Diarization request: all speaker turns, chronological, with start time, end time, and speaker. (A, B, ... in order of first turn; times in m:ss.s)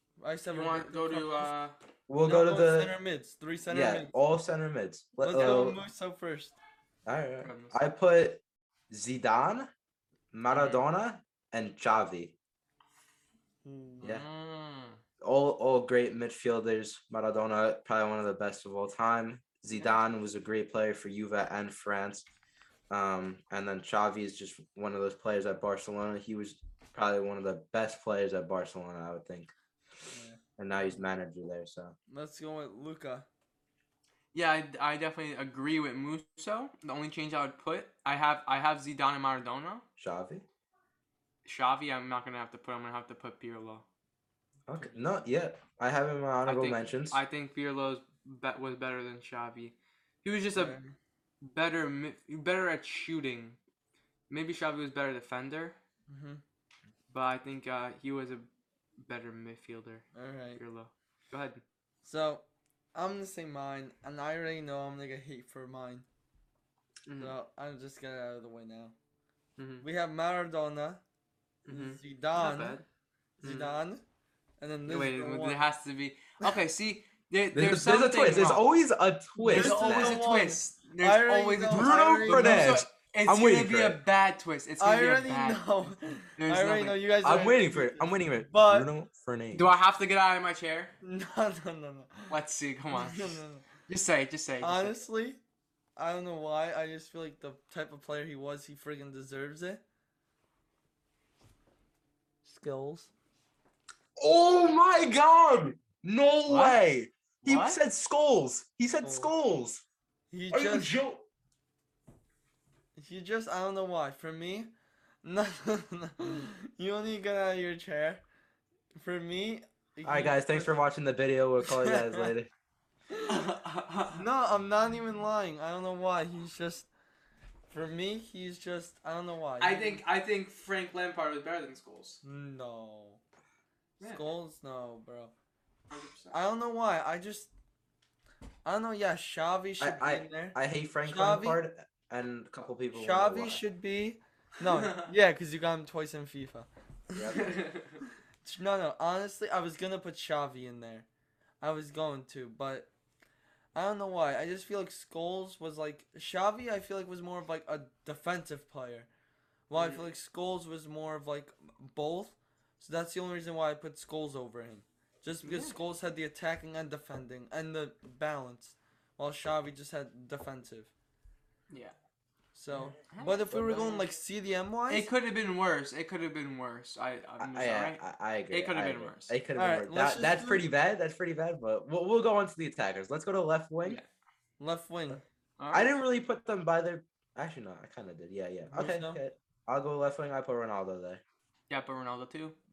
0:00.2-0:01.5 A
0:00.5-0:01.8 B
0:02.1-0:03.0 C
0:02.2-0:04.1 A
0:03.7-0:05.8 C
0:05.2-0:06.6 A
0:07.1-0:09.7 C
0:07.4-0:07.8 B
0:10.3-0:12.4 C
0:10.5-0:10.8 B
0:13.6-0:14.1 A
0:14.0-0:15.0 B
0:15.2-0:22.3 C
0:22.9-0:29.5 C
0:30.1-0:31.0 A
0:30.6-0:32.0 C
0:32.1-0:33.3 A
0:34.3-0:39.8 B
0:40.0-0:40.4 C
0:41.4-0:43.8 B
0:44.7-0:47.2 C
0:46.5-0:50.8 B
0:50.6-0:51.0 A
0:51.4-0:53.6 B
0:54.3-0:55.8 B
0:56.1-0:56.4 A
0:57.1-0:58.5 B
0:59.0-1:01.6 B
1:00.2-1:00.6 A
1:02.0-1:06.1 A
1:07.1-1:07.4 B
1:07.2-1:09.0 A
1:09.6-1:09.8 B
1:09.8-1:11.0 A
1:11.7-1:12.8 B
1:11.7-1:12.8 A
1:13.4-1:13.7 B
1:13.4-1:14.0 A
1:14.6-1:15.6 A
1:14.9-1:18.6 B
1:17.5-1:20.2 C
1:19.4-1:22.8 A
1:19.4-1:27.1 B
1:21.7-1:24.0 C
1:24.8-1:28.9 A
1:27.2-1:29.7 C
1:29.5-1:30.9 B
1:31.0-1:32.4 A
1:32.3-1:35.0 B
1:32.9-1:33.6 A
1:34.6-1:35.4 A
1:36.0-1:39.8 A
1:42.4-1:43.1 A
1:44.2-1:49.8 C
1:46.5-1:46.8 B
1:47.4-1:47.8 B
1:49.0-1:49.3 A
1:50.3-1:51.0 A
1:50.5-1:51.3 C
1:53.0-1:54.7 A
1:55.2-1:58.2 A
1:59.0-2:00.7 A
2:00.0-2:02.5 C
2:01.6-2:02.3 A
2:03.3-2:04.2 B
2:04.2-2:06.9 A
2:07.7-2:10.0 A
2:09.6-2:12.2 B
2:12.2-2:13.2 A
2:14.0-2:14.3 B
2:14.0-2:15.3 A
2:15.9-2:16.4 B
2:16.3-2:17.5 A
2:18.6-2:21.6 A
2:19.8-2:23.6 C
2:22.9-2:27.6 A
2:24.6-2:25.1 B
2:27.2-2:27.5 C
2:27.3-2:28.0 B
2:28.4-2:31.1 A
2:31.6-2:32.9 A
2:33.8-2:39.1 A
2:39.7-2:50.9 A
2:39.8-2:40.1 B
2:45.4-2:45.8 B
2:51.7-2:52.0 B
2:52.6-2:55.1 A
2:53.1-2:54.1 B
2:54.9-2:59.4 B
2:57.4-3:04.0 C
2:59.6-3:00.7 A
3:04.6-3:05.2 A
3:05.6-3:06.0 B
3:05.7-3:11.2 C
3:08.7-3:09.2 A
3:11.7-3:12.6 B